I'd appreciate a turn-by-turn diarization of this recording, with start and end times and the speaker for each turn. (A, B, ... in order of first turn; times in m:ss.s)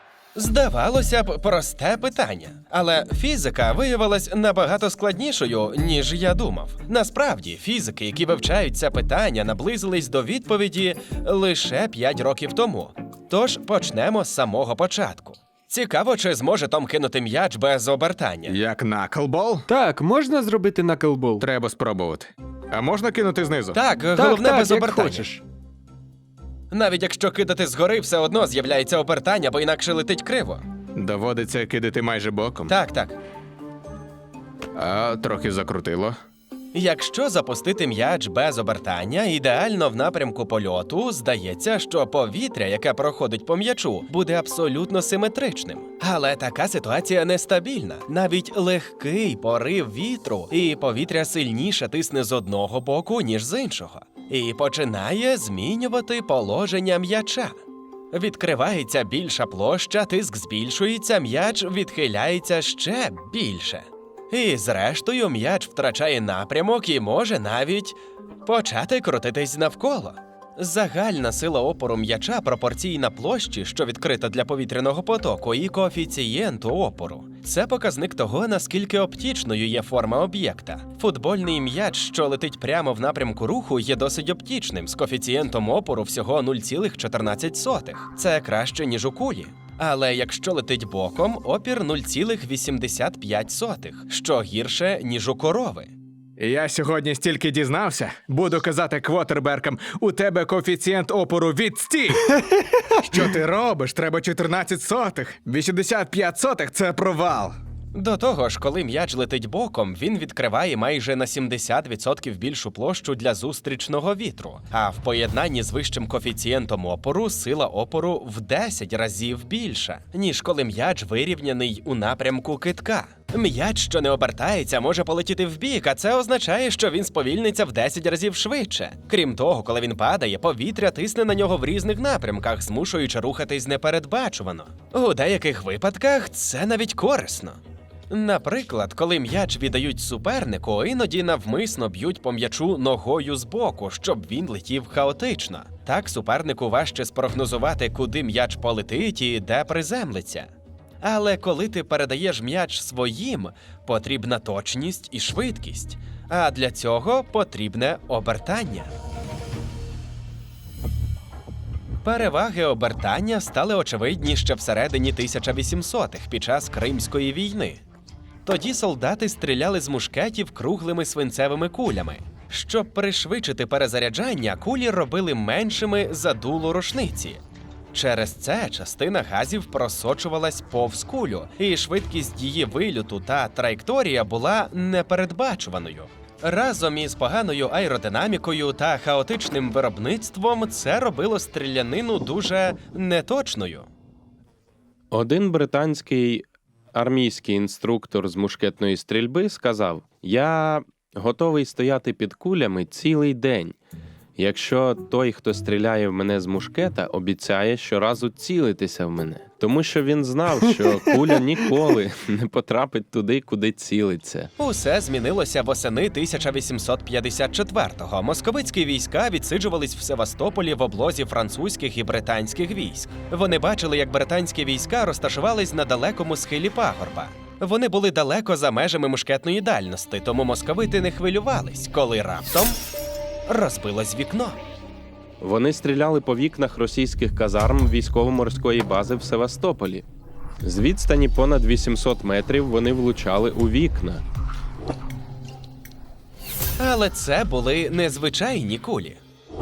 0:00.3-0:18.6 A
0:18.4-0:19.7 B
0:19.7-0:21.4 C
0:21.4-0:23.8 B
0:23.7-0:25.3 A
0:24.2-0:25.4 C
0:26.7-0:30.6 A
0:30.9-0:32.7 B
0:32.7-0:33.2 A
0:34.7-0:36.2 B
0:36.7-0:57.5 A
0:58.1-1:35.9 A
1:36.4-1:42.4 B
1:43.0-1:47.6 B
1:47.9-2:17.6 A
2:18.1-2:30.5 A
2:31.0-2:38.9 A
2:42.0-2:47.8 A
2:48.4-2:57.4 A
2:57.9-3:13.9 A
3:15.1-3:23.8 D
3:24.4-3:34.5 D
3:30.7-3:31.4 C
3:34.6-3:52.8 A
3:53.5-3:54.6 A
3:55.4-4:00.0 D
4:00.6-4:04.2 D
4:06.8-4:09.2 A